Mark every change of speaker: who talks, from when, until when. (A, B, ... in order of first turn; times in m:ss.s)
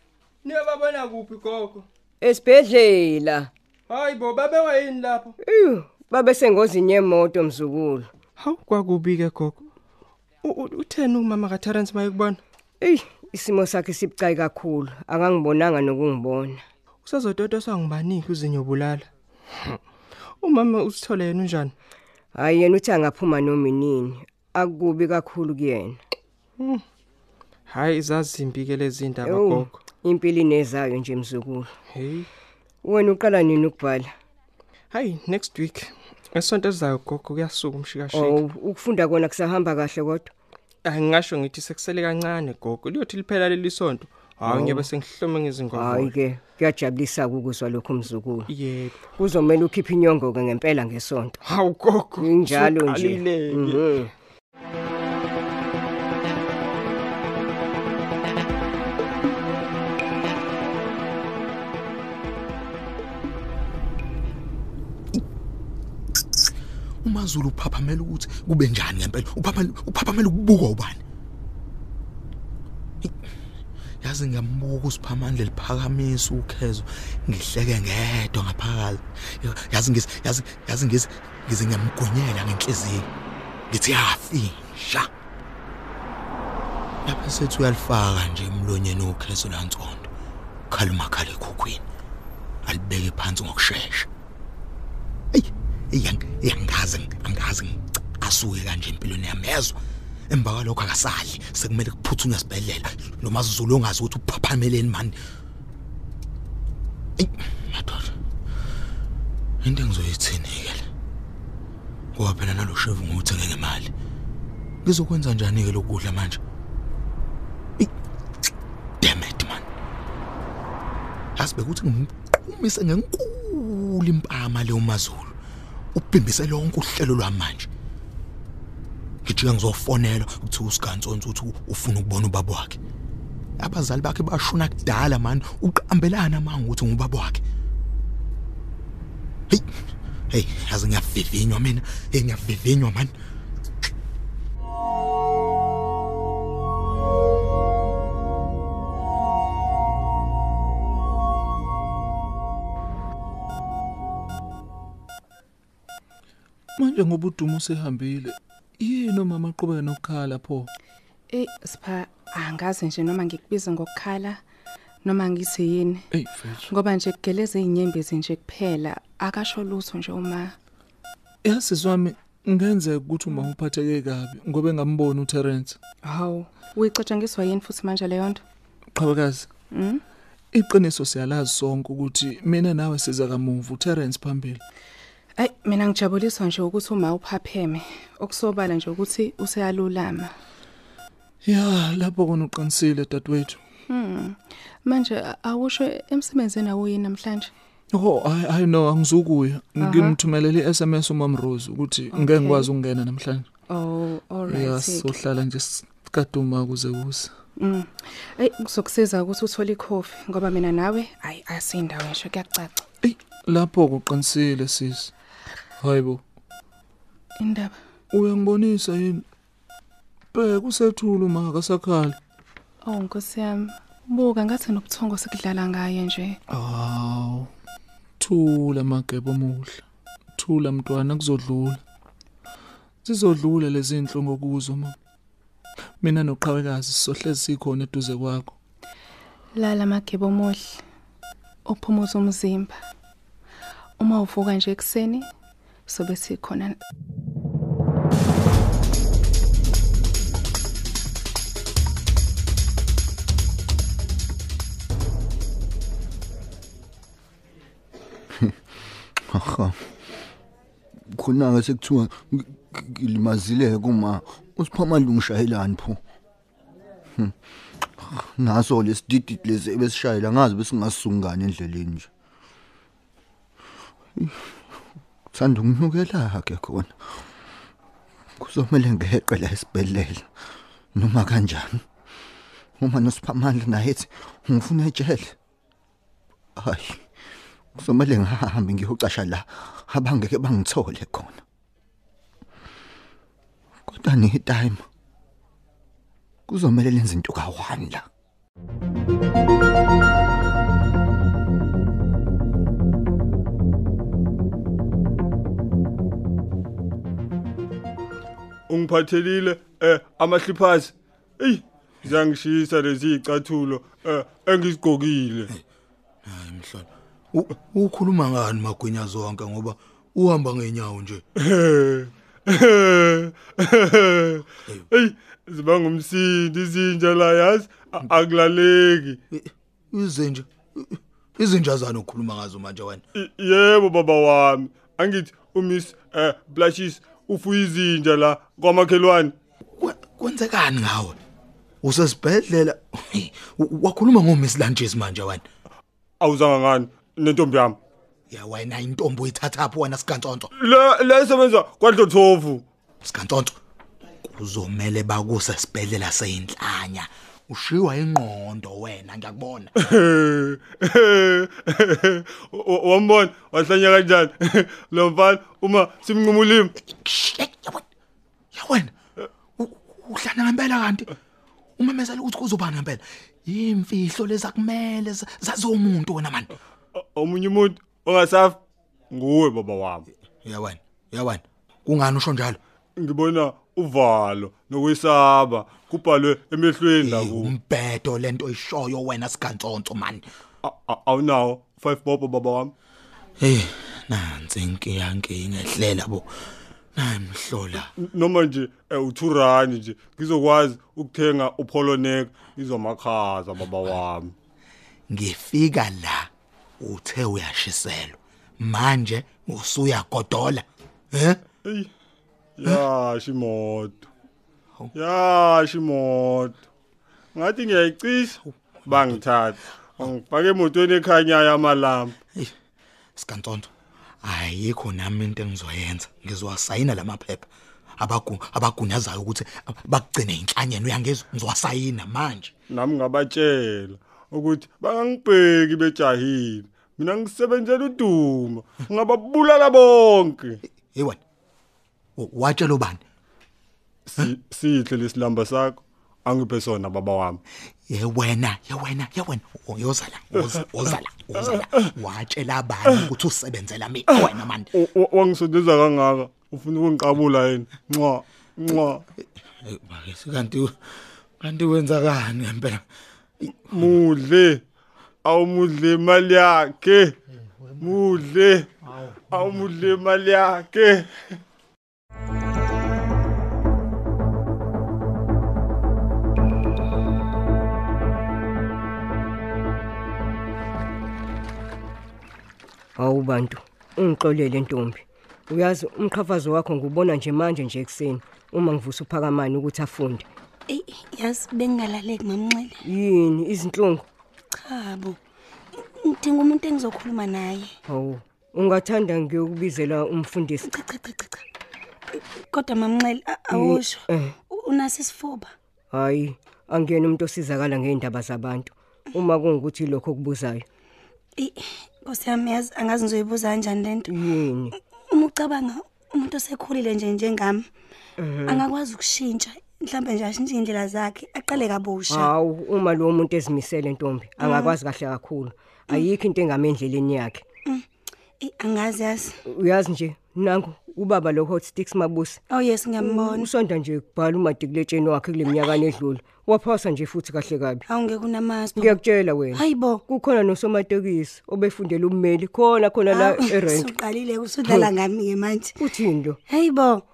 0:00.4-0:01.9 A
0:02.2-0:03.5 B
0:03.9-0:05.4 A
0:05.5-0:08.1 B
0:08.4-0:09.7 A
0:10.4-0:12.4 A
0:12.8-0:16.6 B
0:17.0-0:19.8 A
0:20.4-0:21.8 A
0:22.4-0:26.0 B
0:26.6-0:26.8 A
0:27.7-0:29.8 A
0:29.2-0:31.7 B
0:31.9-0:32.3 A
0:32.8-0:34.1 B
0:34.9-0:38.4 A
0:38.1-0:40.3 B
0:40.8-0:46.1 A
0:44.4-0:44.9 B
0:45.7-0:48.5 B
0:48.5-0:49.1 A
0:49.1-0:51.4 B
0:51.4-0:53.9 A
0:52.2-0:54.1 B
1:07.0-1:11.0 C
1:14.0-1:23.1 C
1:23.7-1:25.1 C
1:27.0-1:30.1 C
1:30.7-1:31.8 C
1:32.7-1:34.1 C
1:35.3-1:39.8 C
1:40.3-1:45.2 C
1:47.2-1:48.1 C
1:49.6-1:50.9 C
1:52.2-1:53.9 C
1:54.8-1:56.4 C
1:59.0-1:59.6 C
2:01.4-2:05.4 C
2:06.0-2:07.7 C
2:09.2-2:12.8 C
2:13.6-2:17.4 C
2:20.3-2:23.1 C
2:36.8-2:40.7 D
2:41.3-2:44.4 E
2:45.0-2:46.0 E
2:46.1-2:46.7 D
2:46.7-2:50.6 E
2:51.4-2:55.8 D
2:56.0-2:58.4 E
2:59.0-2:59.5 D
2:59.7-3:00.0 E
3:00.5-3:04.6 D
3:05.4-3:10.3 E
3:11.4-3:13.6 D
3:13.9-3:17.5 E
3:17.9-3:23.5 D
3:19.8-3:20.2 E
3:22.1-3:22.7 E
3:23.7-3:25.2 E
3:24.5-3:27.3 D
3:27.6-3:32.8 E
3:33.0-3:35.1 D
3:35.8-3:36.2 D
3:37.4-3:37.8 E
3:38.1-3:39.2 D
3:40.3-3:42.2 D
3:42.8-3:46.4 E
3:46.5-3:47.5 D
3:48.2-3:49.8 D
3:50.4-3:51.8 D
3:53.0-3:55.0 D
3:56.0-3:58.5 D
3:59.6-4:00.8 E
4:01.6-4:02.8 E
4:04.0-4:05.3 E
4:05.9-4:06.8 E
4:19.3-4:19.8 F
4:21.1-4:26.0 F
4:28.0-4:32.1 F
4:34.2-4:34.6 F
4:35.3-4:37.2 F
4:38.4-4:40.3 F
4:40.9-4:41.8 F
4:42.8-4:45.4 F
4:46.6-4:47.0 F
4:47.8-4:51.4 F
4:53.9-4:54.8 F
4:56.5-4:58.1 F
5:08.7-5:15.5 G
5:16.3-5:21.2 C
5:21.4-5:29.2 G
5:29.3-5:33.0 C
5:33.2-5:39.3 G
5:39.8-5:41.2 C
5:41.8-5:45.4 C
5:46.2-5:47.8 G
5:48.3-5:50.5 C
5:50.6-5:52.6 G
5:53.0-5:53.6 C
5:54.2-5:59.7 C
5:59.8-6:06.7 G
6:06.8-6:07.8 C
6:08.5-6:08.9 C
6:09.6-6:11.1 C
6:11.8-6:16.5 C
6:17.0-6:18.6 G
6:19.1-6:20.1 G
6:20.4-6:22.6 C
6:23.0-6:27.5 G
6:27.0-6:30.2 C
6:30.6-6:32.7 G
6:33.4-6:36.3 C
6:37.0-6:37.9 C
6:38.0-6:44.3 G
6:45.1-6:46.3 C
6:46.8-6:51.4 C
6:52.6-6:54.0 G
6:54.9-6:56.6 G
6:57.4-7:02.2 G
7:03.2-7:03.7 C
7:04.2-7:07.5 C
7:08.0-7:12.5 C
7:12.7-7:20.6 G
7:20.9-7:21.2 C
7:22.2-7:23.0 C
7:24.1-7:27.4 G
7:27.9-7:34.7 C
7:34.7-7:39.0 G
7:39.6-7:40.7 C
7:41.4-7:42.8 C
7:43.7-7:44.6 G
7:45.2-7:47.2 G
7:47.8-7:48.7 G
7:49.3-7:51.1 G
8:03.0-8:10.2 B
8:10.7-8:12.8 H
8:12.9-8:14.0 B
8:14.6-8:15.2 H
8:16.0-8:17.7 H
8:17.9-8:20.7 B
8:20.6-8:21.4 H
8:22.4-8:25.5 H
8:23.5-8:24.4 B
8:25.9-8:30.6 B
8:31.4-8:34.1 H
8:34.1-8:34.7 B
8:35.1-8:37.7 H
8:38.2-8:38.6 B
8:38.5-8:42.3 H
8:42.1-8:47.4 B
8:44.4-8:44.8 H
8:48.4-8:49.4 H
8:49.5-8:52.4 B
8:52.5-8:53.5 H
8:53.0-8:57.8 B
8:57.9-8:59.0 H
8:58.8-9:04.0 B
8:59.5-9:00.0 H
9:03.1-9:05.8 H
9:04.6-9:04.9 B
9:05.8-9:06.4 B
9:06.5-9:07.0 H